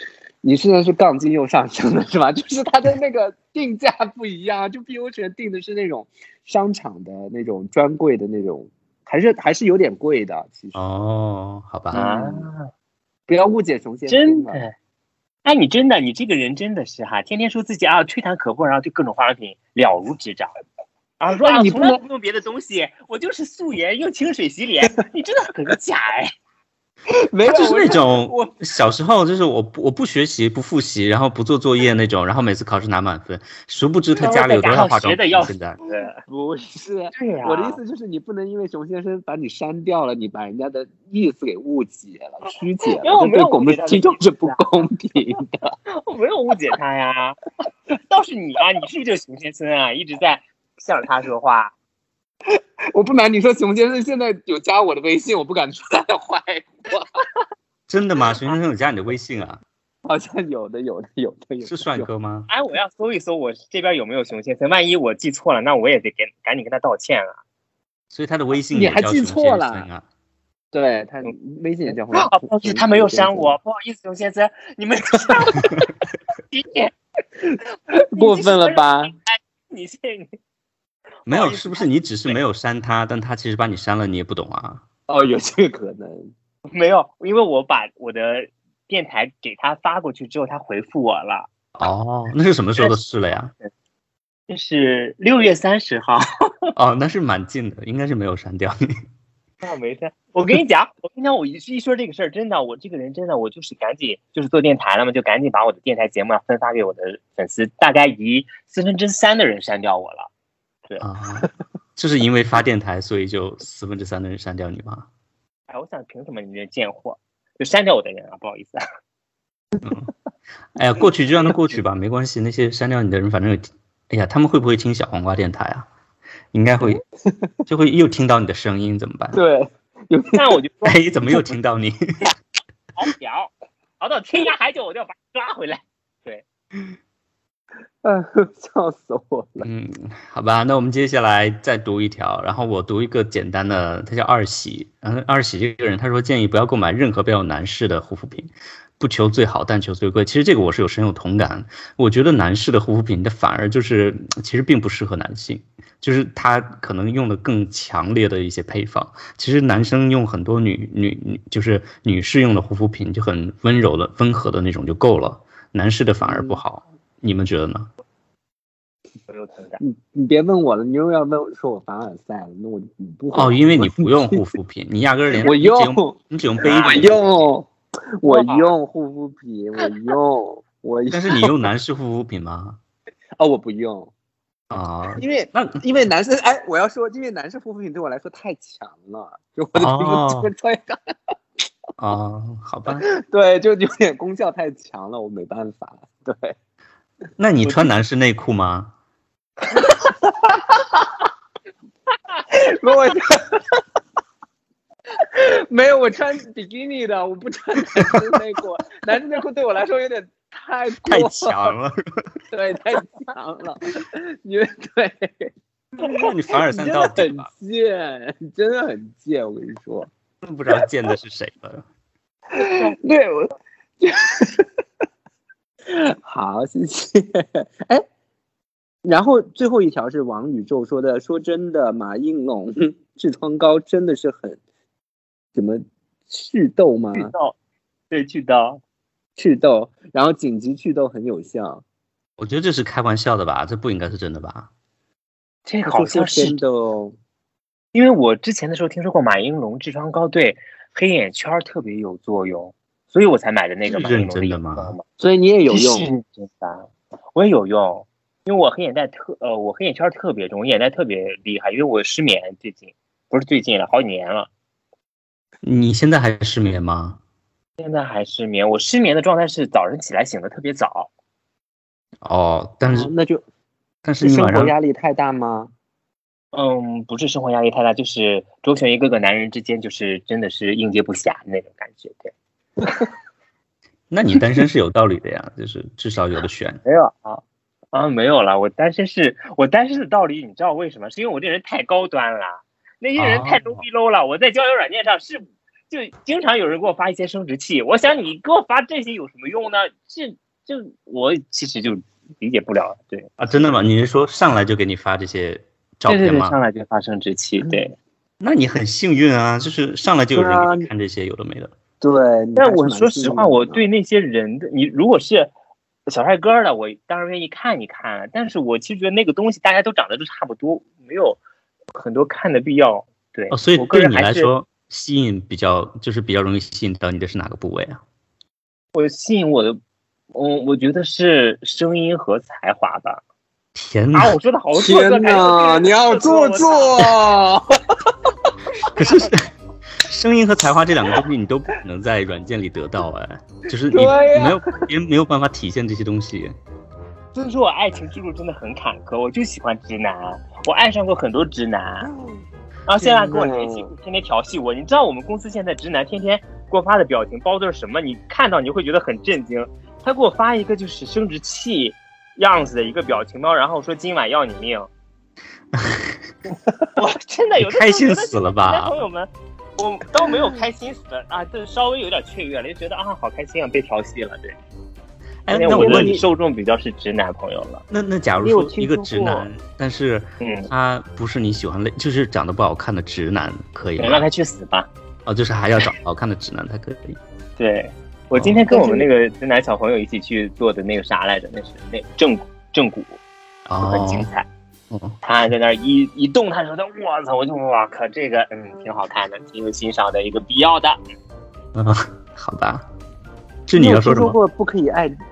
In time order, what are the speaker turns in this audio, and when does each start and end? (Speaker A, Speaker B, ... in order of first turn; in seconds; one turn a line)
Speaker A: 0.4-10.8
Speaker B: 10.7-12.1
Speaker C: 11.9-12.7
Speaker A: 11.9-12.2
Speaker A: 13.3-14.6
Speaker C: 14.1-14.7
Speaker C: 15.4-20.5
Speaker C: 21.2-26.3
Speaker A: 21.4-22.0
Speaker A: 27.3-28.6
Speaker B: 27.4-35.8
Speaker C: 34.2-36.1
Speaker A: 36.3-45.7
Speaker C: 37.1-37.8
Speaker C: 43.0-44.9
Speaker C: 45.9-47.4
Speaker C: 47.9-51.7
Speaker A: 52.5-57.2
Speaker B: 57.9-59.6
Speaker A: 60.0-62.1
Speaker B: 61.6-62.5
Speaker C: 62.5-67.4
Speaker B: 68.1-70.0
Speaker A: 68.7-69.9
Speaker A: 70.7-73.5
Speaker C: 72.1-75.8
Speaker C: 76.5-76.9
Speaker A: 77.9-79.1
Speaker C: 78.1-80.4
Speaker C: 81.2-82.4
Speaker B: 81.3-84.8
Speaker A: 85.1-86.3
Speaker C: 86.7-91.5
Speaker B: 91.7-93.5
Speaker C: 94.5-96.5
Speaker B: 96.8-98.9
Speaker C: 99.6-110.3
Speaker B: 111.0-115.1
Speaker C: 115.7-118.8
Speaker B: 119.8-120.1
Speaker B: 120.7-125.9
Speaker B: 126.5-127.0
Speaker A: 126.8-127.5
Speaker B: 127.7-129.4
Speaker A: 129.3-130.6
Speaker C: 130.3-131.0
Speaker B: 130.8-132.0
Speaker C: 133.0-136.4
Speaker A: 138.0-139.7
Speaker B: 139.6-167.9
Speaker A: 166.2-166.6
Speaker C: 169.3-169.8
Speaker A: 169.8-174.4
Speaker B: 173.3-177.2
Speaker A: 175.4-181.5
Speaker C: 176.6-177.1
Speaker C: 178.2-178.7
Speaker B: 181.1-182.8
Speaker A: 183.4-184.1
Speaker B: 184.7-185.8
Speaker A: 185.2-191.3
Speaker B: 189.8-190.5
Speaker B: 192.0-193.1
Speaker A: 192.9-196.5
Speaker B: 197.4-198.9
Speaker A: 199.8-200.7
Speaker A: 202.5-203.8
Speaker A: 205.2-211.7
Speaker B: 211.0-212.3
Speaker A: 212.5-220.1
Speaker B: 216.0-217.5
Speaker B: 220.4-221.9
Speaker A: 222.5-224.7
Speaker A: 225.9-228.0
Speaker A: 229.0-234.6
Speaker A: 235.5-237.3
Speaker C: 237.1-237.5
Speaker C: 238.1-238.8
Speaker A: 239.4-241.8
Speaker B: 242.4-244.7
Speaker C: 245.7-246.6
Speaker A: 245.8-247.2
Speaker C: 247.9-255.0
Speaker B: 253.8-254.9
Speaker A: 255.2-256.1
Speaker C: 255.7-264.5
Speaker B: 265.6-267.2
Speaker C: 267.8-271.1
Speaker B: 272.2-273.1
Speaker A: 272.9-273.4
Speaker B: 274.0-274.7
Speaker A: 274.2-275.7
Speaker C: 276.5-282.3
Speaker B: 284.1-286.8
Speaker C: 286.8-303.3
Speaker B: 293.2-293.8
Speaker B: 303.4-306.5
Speaker C: 306.1-307.9
Speaker B: 308.4-311.7
Speaker A: 310.3-310.9
Speaker A: 312.0-313.8
Speaker C: 312.6-315.5
Speaker C: 316.1-321.4
Speaker C: 321.9-324.5
Speaker B: 323.5-328.0
Speaker C: 328.9-329.8
Speaker C: 330.3-333.2
Speaker B: 333.7-334.4
Speaker C: 334.1-337.1
Speaker A: 334.7-338.1
Speaker B: 338.9-346.6
Speaker A: 343.9-344.8
Speaker C: 347.3-352.1
Speaker C: 352.9-364.9
Speaker A: 353.0-353.9
Speaker B: 365.7-366.2
Speaker C: 366.9-374.6
Speaker B: 367.6-368.9
Speaker B: 375.5-376.2
Speaker C: 375.5-377.8
Speaker A: 375.7-376.2
Speaker B: 377.9-384.2
Speaker A: 378.4-379.4
Speaker C: 380.4-380.7
Speaker C: 384.0-384.9
Speaker B: 385.2-387.2
Speaker C: 387.6-393.2
Speaker B: 388.3-388.6
Speaker A: 388.7-389.1
Speaker B: 393.7-394.3
Speaker C: 393.8-394.4
Speaker B: 394.9-395.1
Speaker C: 395.2-401.0
Speaker B: 401.7-402.9
Speaker B: 403.7-404.4
Speaker A: 403.7-405.1